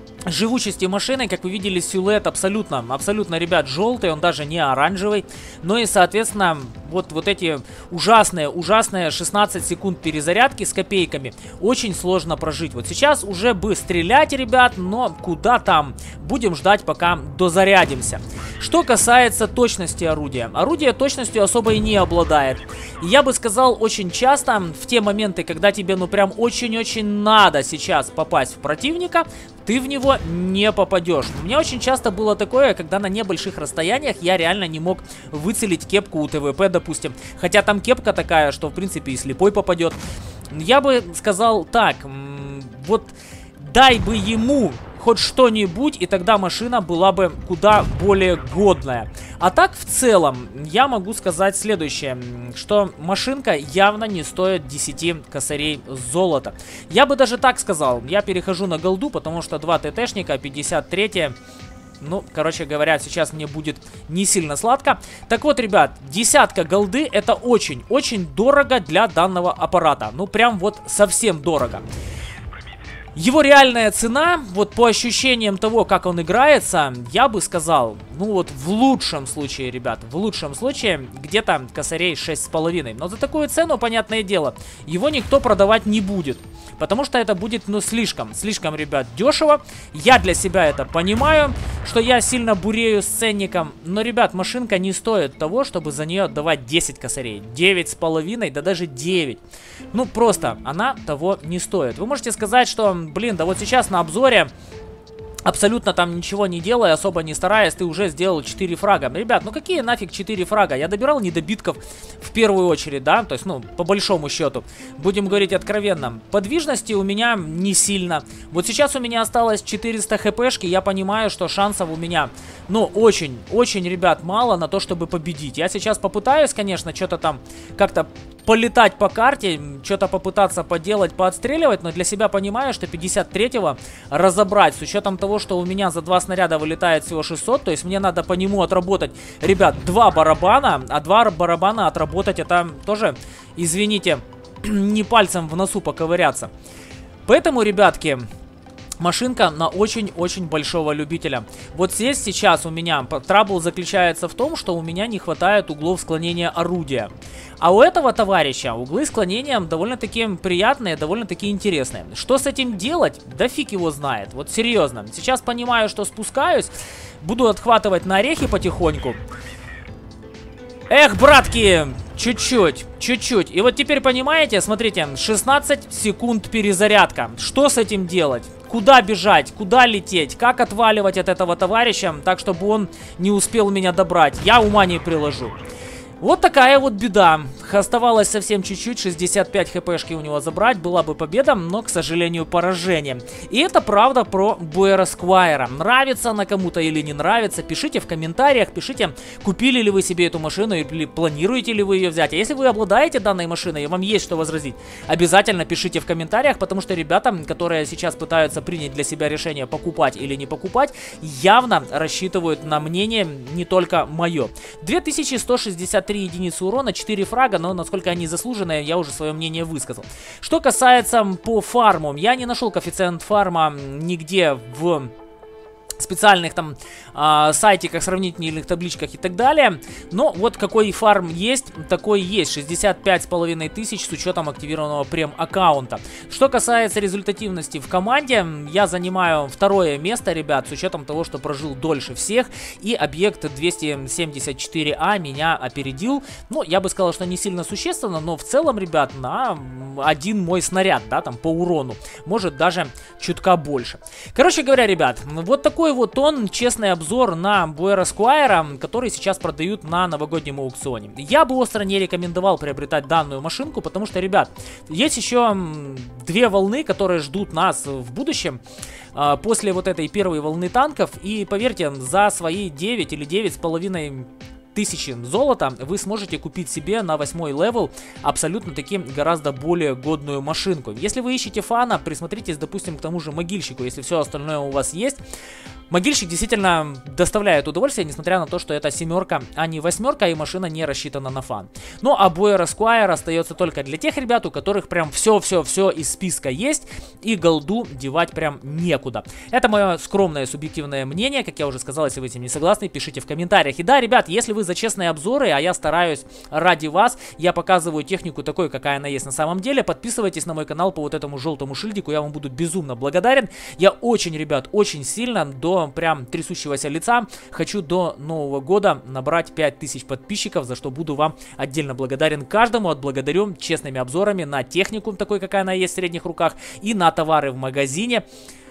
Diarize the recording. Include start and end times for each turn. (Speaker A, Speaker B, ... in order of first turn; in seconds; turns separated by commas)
Speaker A: 0.2-40.0, Speaker A: 40.5-61.4, Speaker A: 62.0-71.8, Speaker A: 73.2-99.4, Speaker A: 99.9-104.5, Speaker A: 105.5-146.5, Speaker A: 147.2-148.2, Speaker A: 149.0-169.2, Speaker A: 170.9-185.6, Speaker A: 186.2-225.1, Speaker A: 226.0-268.6, Speaker A: 269.1-285.2, Speaker A: 285.9-328.2